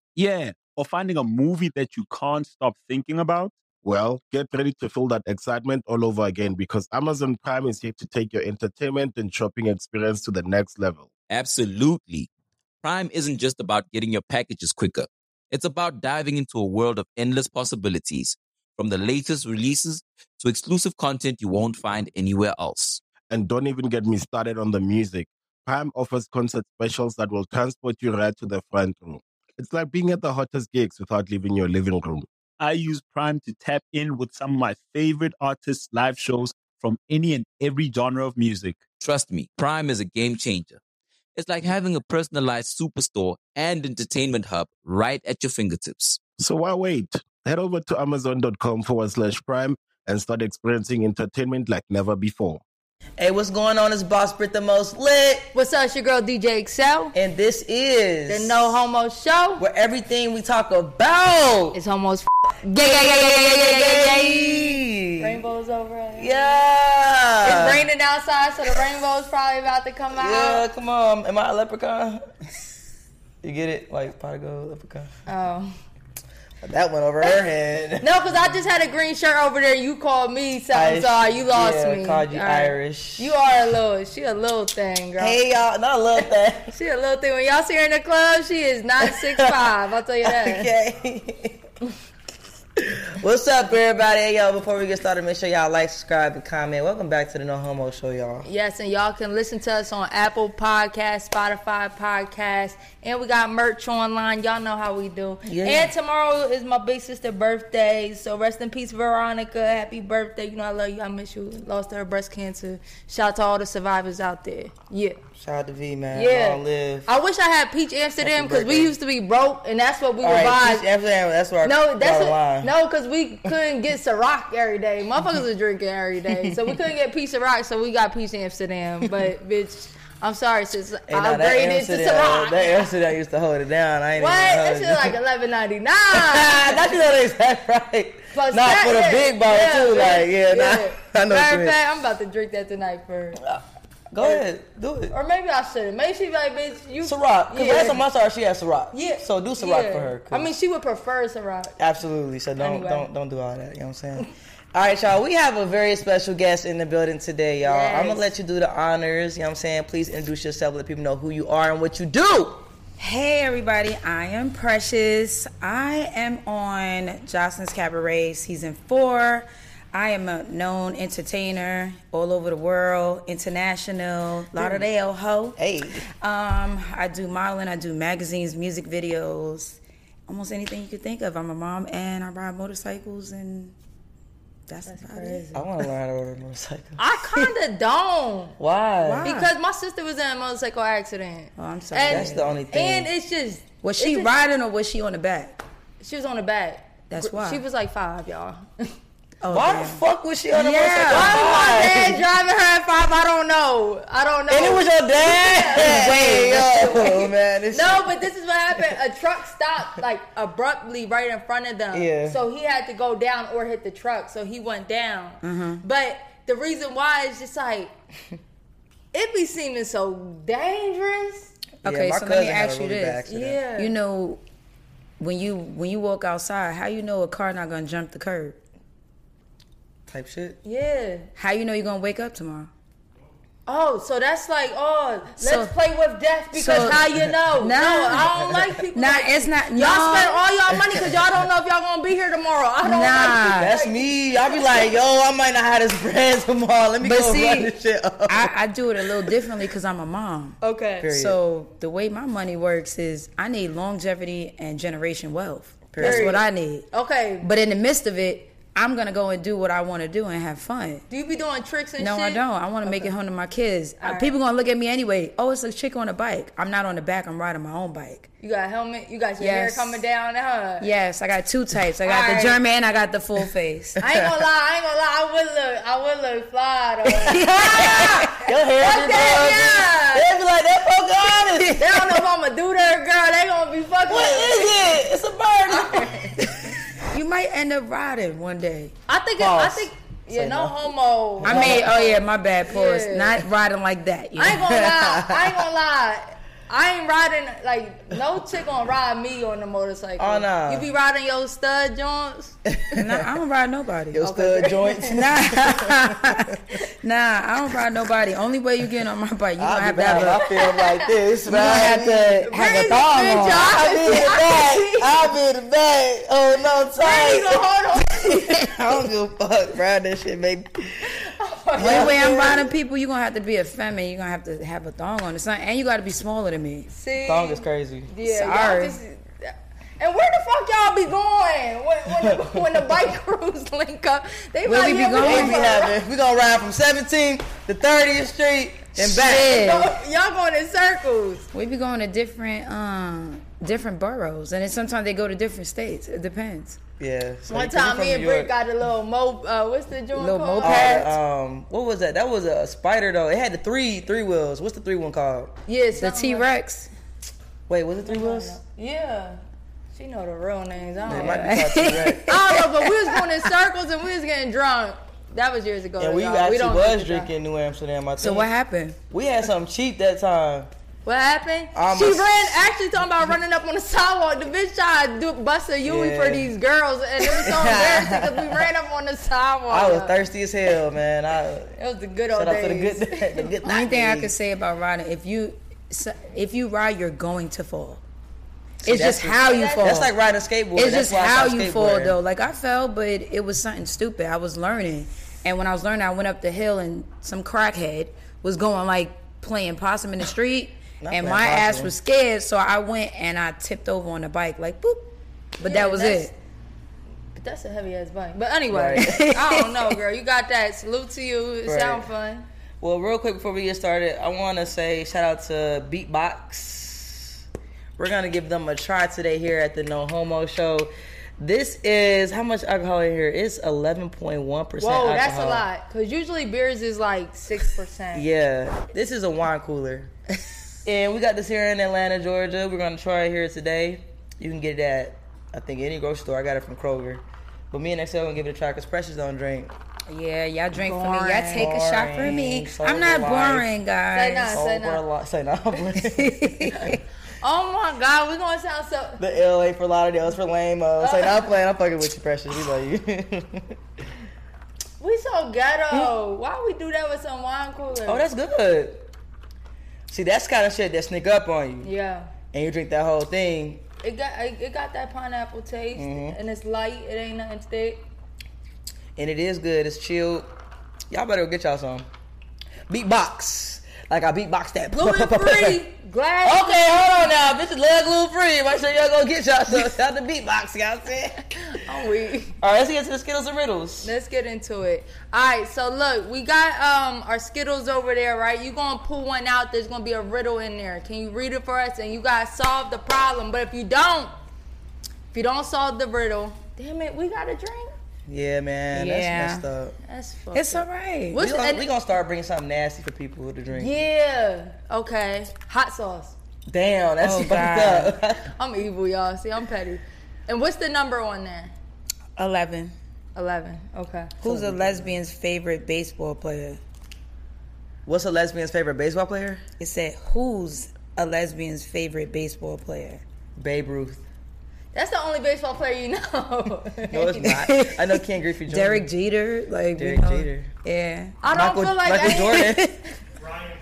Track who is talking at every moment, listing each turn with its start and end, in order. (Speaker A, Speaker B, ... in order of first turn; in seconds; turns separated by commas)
Speaker A: 0.1-3.5, Speaker B: 3.8-11.1, Speaker C: 11.3-12.3, Speaker C: 12.8-23.0, Speaker B: 23.3-32.3, Speaker A: 32.6-38.8, Speaker C: 39.0-40.8, Speaker C: 41.3-46.2, Speaker B: 46.4-52.6, Speaker D: 53.2-55.5, Speaker E: 55.5-57.1, Speaker D: 57.1-58.7, Speaker E: 58.3-59.6, Speaker D: 59.6-61.8, Speaker E: 61.7-66.6, Speaker D: 62.8-65.4, Speaker D: 66.2-67.8, Speaker E: 67.4-70.6, Speaker D: 70.1-72.2, Speaker D: 73.4-75.1, Speaker E: 75.3-75.7, Speaker D: 76.6-78.1, Speaker E: 78.0-85.4, Speaker D: 80.7-83.3, Speaker D: 85.2-86.7, Speaker E: 86.7-90.7, Speaker D: 89.0-89.6, Speaker D: 90.2-91.6, Speaker D: 92.8-98.5, Speaker E: 98.4-115.2, Speaker D: 105.4-105.9, Speaker D: 115.4-117.1, Speaker E: 116.1-120.8, Speaker D: 118.2-118.9, Speaker D: 120.2-122.7, Speaker E: 121.6-132.9, Speaker D: 131.1-135.2, Speaker E: 134.2-136.9, Speaker D: 136.1-141.8, Speaker E: 138.3-143.4, Speaker D: 143.4-145.1, Speaker E: 145.1-148.0, Speaker D: 147.0-150.5, Speaker E: 148.9-151.7, Speaker D: 151.8-162.6, Speaker E: 152.6-153.1, Speaker E: 157.6-158.3, Speaker F: 163.0-175.6, Speaker D: 174.6-174.8, Speaker D: 175.6-176.0, Speaker F: 176.2-183.7, Speaker F: 184.7-185.7, Speaker E: 184.9-185.4, Speaker D: 185.5-187.4, Speaker E: 187.0-188.6, Speaker D: 188.6-189.3, Speaker F: 189.0-189.5, Speaker E: 189.2-194.3, Speaker F: 191.6-192.6, Speaker D: 192.1-193.1, Speaker F: 193.8-195.6, Speaker E: 196.0-198.9, Speaker F: 197.1-197.6, Speaker F: 199.4-201.5, Speaker D: 199.5-202.2, Speaker E: 201.1-217.9, Speaker D: 204.5-208.1, Speaker F: 205.8-207.2, Speaker D: 211.9-212.4, Speaker F: 215.4-215.8, Speaker E: 219.1-221.5, Speaker F: 221.8-223.2, Speaker D: 221.8-223.6, Speaker E: 223.3-223.9, Speaker F: 223.8-224.4, Speaker F: 225.2-228.6, Speaker D: 230.1-230.6, Speaker E: 230.6-231.3, Speaker F: 231.3-232.7, Speaker E: 233.7-244.9, Speaker F: 235.4-235.7, Speaker F: 236.5-238.3, Speaker F: 238.9-240.4, Speaker F: 242.8-243.8, Speaker D: 243.2-248.5, Speaker F: 247.0-247.7, Speaker F: 248.3-256.9, Speaker E: 250.6-251.1, Speaker D: 251.0-251.4, Speaker D: 255.9-256.4, Speaker E: 256.0-257.5, Speaker F: 257.4-261.0, Speaker E: 261.1-263.1, Speaker F: 262.0-268.3, Speaker E: 264.0-264.3, Speaker E: 268.4-270.9, Speaker F: 269.4-270.0, Speaker F: 270.8-274.0, Speaker E: 272.0-272.6, Speaker E: 274.0-280.3, Speaker F: 277.2-278.4, Speaker D: 277.3-281.9, Speaker F: 281.6-281.9, Speaker E: 281.8-284.9, Speaker D: 284.1-286.7, Speaker E: 285.7-286.4, Speaker F: 287.1-288.9, Speaker E: 289.1-293.4, Speaker D: 289.4-292.0, Speaker F: 291.4-294.8, Speaker E: 294.4-302.6, Speaker D: 294.5-295.6, Speaker D: 300.2-300.9, Speaker D: 302.8-303.1, Speaker F: 303.0-304.2, Speaker D: 304.1-306.3, Speaker E: 304.2-305.2, Speaker F: 305.1-310.4, Speaker D: 309.6-312.4, Speaker E: 310.4-310.9, Speaker F: 311.5-314.3, Speaker E: 312.5-315.2, Speaker D: 313.5-321.1, Speaker E: 317.0-318.6, Speaker E: 321.2-322.6, Speaker D: 321.8-322.5, Speaker F: 321.8-326.9, Speaker E: 326.9-336.0, Speaker D: 327.2-328.1, Speaker F: 328.2-329.0, Speaker D: 332.1-332.4, Speaker F: 334.6-335.7, Speaker D: 334.7-339.7, Speaker F: 338.9-339.9, Speaker E: 339.3-341.5, Speaker F: 341.5-346.8, Speaker D: 347.0-348.5, Speaker E: 347.5-351.1, Speaker F: 350.1-351.1, Speaker D: 350.6-355.5, Speaker E: 355.7-356.5, Speaker F: 355.9-356.9, Speaker D: 357.7-358.6, Speaker E: 358.0-359.4, Speaker E: 359.9-361.5, Speaker D: 361.1-362.3, Speaker F: 361.1-363.4, Speaker E: 362.2-367.3, Speaker D: 366.0-368.5, Speaker F: 368.2-369.0, Speaker D: 369.1-370.7, Speaker E: 371.0-380.1, Speaker D: 371.7-372.3, Speaker D: 375.8-376.5, Speaker D: 377.2-378.6, Speaker D: 379.7-381.7, Speaker E: 381.8-383.5, Speaker D: 382.3-384.3, Speaker F: 383.6-388.0, Speaker F: 388.8-390.1, Speaker D: 388.8-392.1, Speaker E: 389.1-389.9, Speaker F: 390.7-406.3, Speaker D: 401.0-401.9, Speaker E: 405.6-406.3, Speaker E: 407.3-412.5, Speaker D: 408.7-409.2, Speaker F: 409.0-409.9, Speaker D: 411.6-412.1, Speaker D: 412.8-417.3, Speaker D: 418.0-425.7, Speaker E: 424.8-428.2, Speaker D: 428.1-430.1, Speaker D: 430.8-439.7, Speaker F: 440.1-444.6, Speaker E: 440.8-441.7, Speaker D: 441.5-443.7, Speaker E: 444.1-445.0, Speaker D: 444.5-446.4, Speaker F: 445.9-447.0, Speaker E: 446.8-449.2, Speaker D: 449.2-453.7, Speaker E: 451.0-451.5, Speaker E: 455.0-458.3, Speaker D: 458.1-459.0, Speaker D: 460.1-461.9, Speaker E: 461.8-462.3, Speaker D: 462.5-463.8, Speaker E: 464.0-468.0, Speaker D: 465.9-466.4, Speaker D: 469.1-470.5, Speaker D: 471.1-472.1, Speaker D: 472.9-475.8, Speaker E: 474.9-476.8, Speaker D: 476.4-481.5, Speaker E: 481.6-482.6, Speaker D: 482.6-484.1, Speaker E: 484.0-494.3, Speaker E: 495.3-497.9, Speaker D: 498.3-499.9, Speaker F: 498.9-499.6, Speaker E: 500.0-501.8, Speaker F: 500.5-501.4, Speaker D: 501.3-503.9, Speaker E: 503.7-506.3, Speaker D: 506.7-508.4, Speaker F: 507.2-508.1, Speaker E: 508.5-511.7, Speaker F: 512.4-513.0, Speaker E: 513.3-514.3, Speaker F: 514.4-516.8, Speaker D: 514.4-515.1, Speaker D: 518.0-519.6, Speaker F: 519.8-523.2, Speaker D: 523.6-524.2, Speaker E: 524.9-527.4, Speaker D: 527.1-529.0, Speaker F: 527.2-531.4, Speaker D: 529.9-530.7, Speaker E: 531.4-532.7, Speaker D: 531.5-532.9, Speaker F: 532.2-533.1